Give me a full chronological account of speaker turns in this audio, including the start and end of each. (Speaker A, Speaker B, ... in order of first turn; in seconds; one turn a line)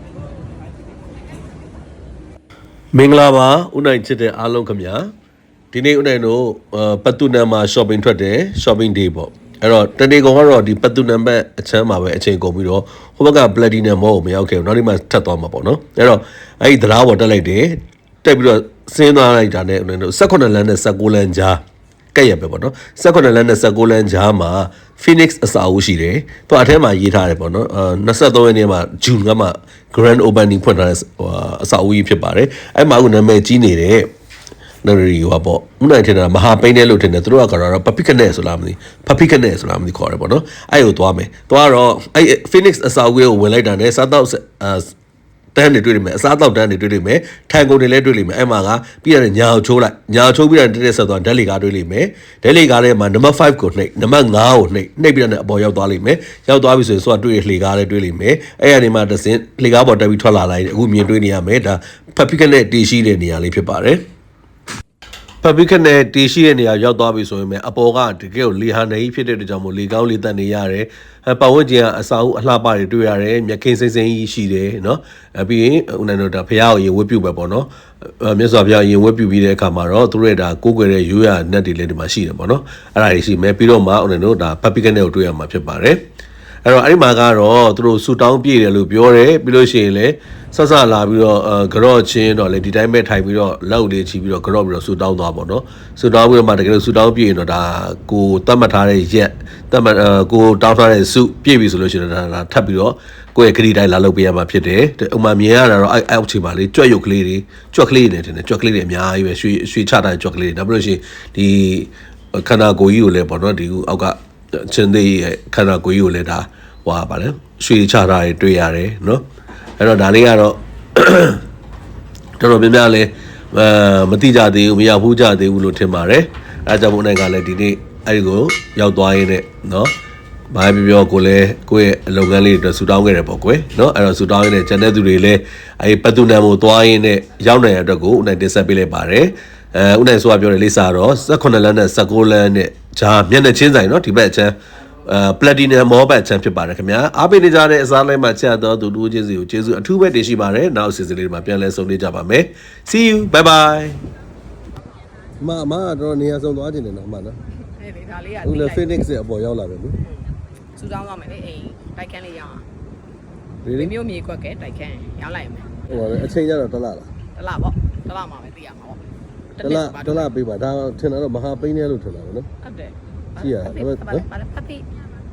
Speaker A: 2.9-5.1
Speaker A: 5.7-21.6
Speaker A: 22.1-34.1
Speaker A: 34.8-44.9
Speaker A: 45.5-64.0
Speaker A: 65.4-86.0
Speaker A: 86.6-119.2
Speaker A: 119.8-121.4
Speaker A: 122.4-129.9
Speaker A: 130.5-154.0
Speaker A: 155.4-157.4
Speaker B: 157.7-159.1
Speaker A: 158.4-160.0
Speaker B: 160.0-162.6
Speaker A: 163.6-163.9
Speaker B: 163.7-166.1
Speaker A: 165.9-167.1
Speaker B: 167.3-169.0
Speaker B: 169.6-170.3
Speaker A: 169.6-172.5
Speaker B: 172.6-174.8
Speaker A: 173.4-174.2